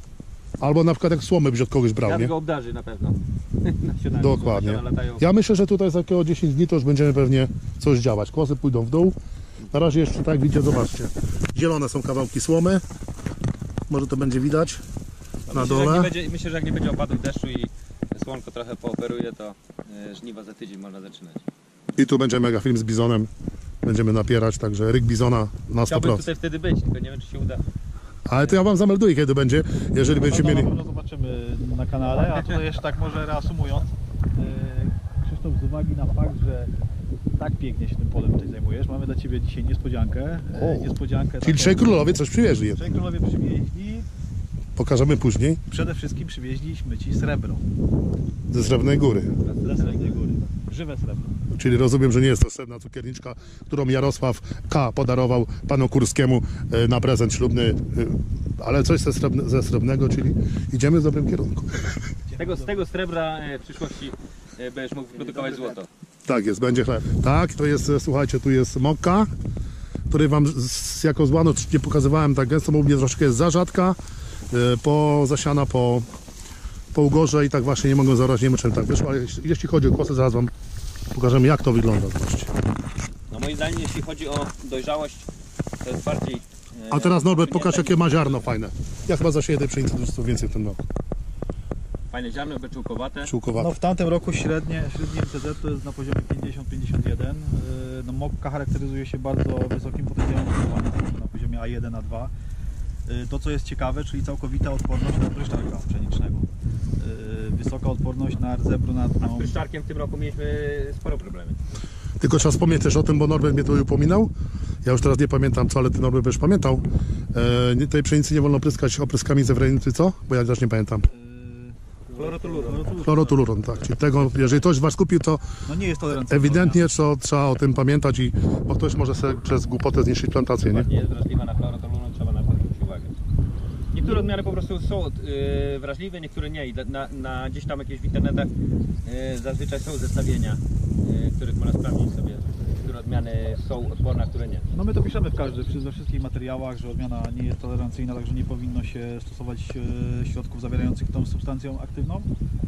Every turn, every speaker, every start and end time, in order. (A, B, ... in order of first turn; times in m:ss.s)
0:00.6-0:02.3 A
0:02.0-0:05.2 B
0:04.2-0:09.2 A
0:09.7-0:12.8 A
0:13.9-0:14.8 A
0:15.5-0:21.4 B
0:15.5-0:16.1 A
0:22.0-0:23.3 A
0:23.8-0:26.2 A
0:25.8-0:27.6 B
0:28.3-0:30.7 A
0:30.2-0:36.7 C
0:37.4-0:42.0 C
0:40.5-0:42.8 A
0:42.8-0:44.1 C
0:44.8-0:45.6 A
0:45.7-0:47.6 C
0:48.5-0:49.3 A
0:49.4-0:50.2 B
0:49.6-0:51.4 C
0:51.5-1:01.8 A
1:02.2-1:02.8 C
1:02.4-1:05.9 B
1:05.1-1:05.8 C
1:06.2-1:09.3 A
1:10.1-1:14.0 A
1:14.5-1:16.0 A
1:16.9-1:20.5 A
1:21.1-1:22.5 A
1:23.3-1:25.3 B
1:25.8-1:28.3 B
1:26.9-1:30.8 A
1:32.1-1:33.3 B
1:33.2-1:33.7 A
1:33.6-1:42.3 C
1:43.1-1:49.5 C
1:49.2-1:51.6 B
1:52.2-1:54.3 A
1:54.8-2:01.1 A
2:01.1-2:03.4 C
2:02.2-2:03.0 B
2:03.0-2:05.4 A
2:04.3-2:04.6 B
2:05.6-2:06.9 C
2:06.3-2:10.9 A
2:10.6-2:13.2 B
2:13.9-2:18.5 B
2:14.0-2:14.3 C
2:19.0-2:24.7 B
2:24.7-2:32.3 C